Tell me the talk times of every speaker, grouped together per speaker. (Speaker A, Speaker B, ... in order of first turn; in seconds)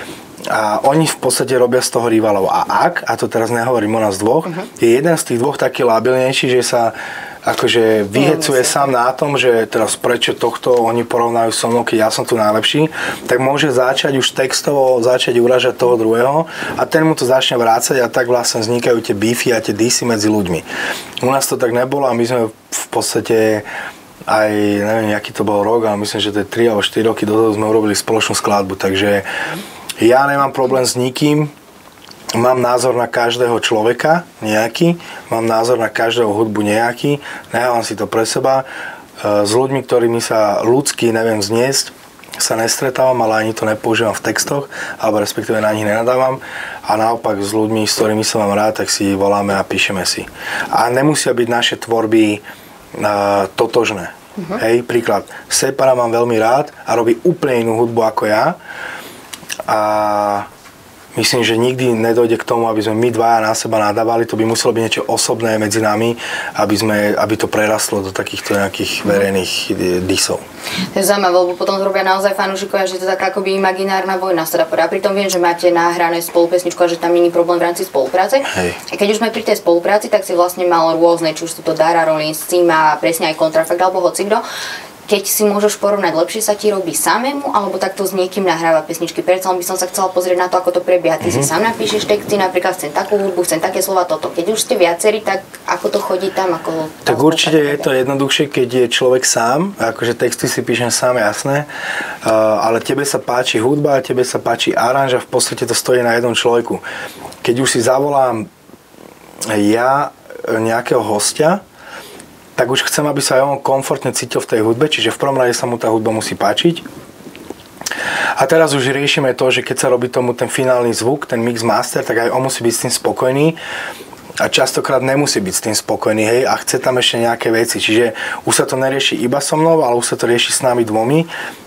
Speaker A: 0.5-20.6, 21.2-23.7, 24.3-29.3, 30.0-31.5, 32.3-38.6, 39.2-52.4, 52.9-58.6, 59.6-60.5, 61.1-70.4, 78.5-78.8, 91.2-91.5, 97.0-101.7, 102.2-106.8, 107.4-108.5, 109.5-111.6, 112.5-116.8, 118.3-123.6, 124.4-131.3
Speaker B: 8.1-8.9, 70.9-84.4, 85.1-97.9